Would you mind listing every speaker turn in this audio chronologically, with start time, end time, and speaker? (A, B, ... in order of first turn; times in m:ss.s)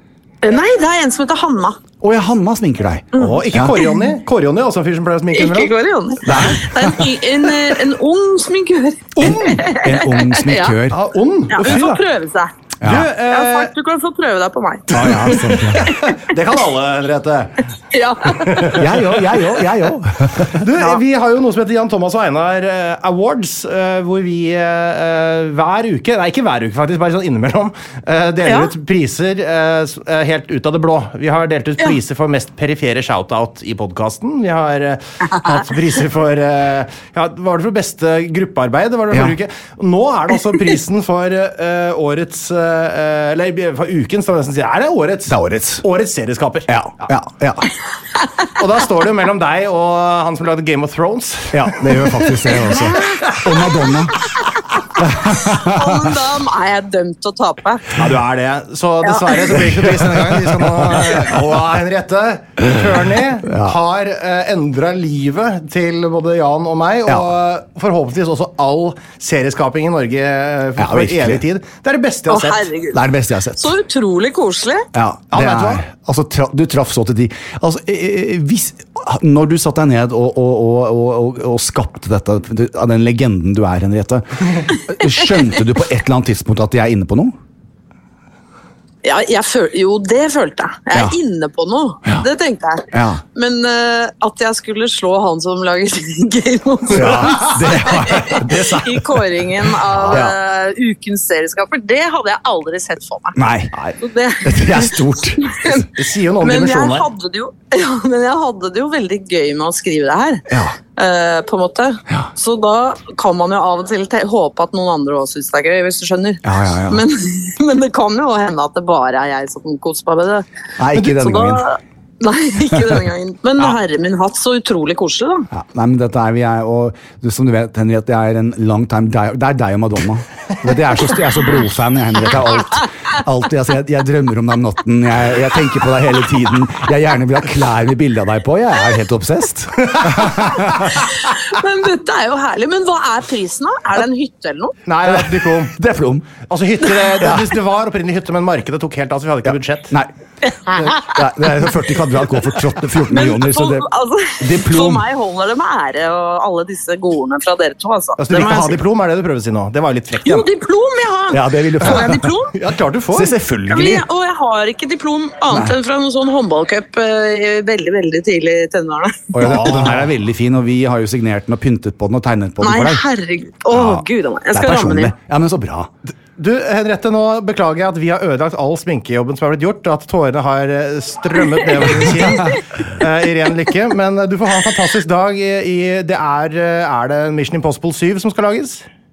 0:00.4-0:01.8 A
0:02.0-0:03.8 B
0:03.2-0:05.7 C
0:05.3-0:10.8 A
0:06.2-0:07.2 B
0:06.3-0:06.6 C
0:09.2-0:11.0 B
0:09.2-0:09.6 C
0:10.9-0:12.0 C
0:11.5-0:12.5 A
0:12.8-0:13.1 B
0:12.8-0:13.7 C
0:13.3-0:15.4 A
0:14.9-0:16.0 B
0:14.9-0:17.7 C
0:17.9-0:18.8 A
0:18.3-0:19.5 C
0:18.7-0:20.8 B
0:20.5-0:47.1 C
0:28.4-0:28.7 A
0:45.2-0:45.8 B
0:46.7-0:47.7 B
0:48.5-0:53.7 C
0:51.5-0:54.4 B
0:55.0-0:56.2 B
0:55.5-0:57.8 A
0:57.9-1:12.7 C
0:59.0-0:59.5 A
0:59.6-1:01.4 B
1:03.4-1:03.8 B
1:10.8-1:11.4 B
1:12.3-1:13.0 A
1:12.9-1:13.8 B
1:13.6-1:14.9 A
1:14.9-1:27.3 B
1:15.3-1:15.8 C
1:29.0-1:43.4 A
1:32.9-1:33.2 B
1:36.9-1:39.0 B
1:36.9-1:39.0 C
1:40.0-1:40.4 B
1:43.3-1:45.8 B
1:44.0-1:45.9 A
1:46.0-1:47.1 C
1:46.4-2:05.5 A
1:50.5-1:50.8 B
1:56.4-1:57.0 B
2:00.8-2:01.7 B
2:02.7-2:03.0 B
2:05.5-2:21.0 B
2:19.9-2:20.3 C
2:21.1-2:24.7 A
2:24.8-2:25.8 C
2:25.0-2:26.4 B
2:26.5-2:30.0 C
2:27.2-2:27.6 B
2:29.5-2:30.1 B
2:30.7-2:33.9 B
2:33.1-2:38.8 A
2:34.4-2:35.1 B
2:38.2-2:40.5 C
2:40.2-2:42.5 A
2:41.3-2:42.3 B
2:41.8-2:43.3 C
2:43.1-2:44.0 B
2:43.7-2:49.4 A
2:45.5-2:45.8 B
2:49.3-2:53.0 B
2:49.4-2:50.1 C
2:52.6-2:55.1 A
2:53.7-2:55.9 B
2:56.4-3:08.8 C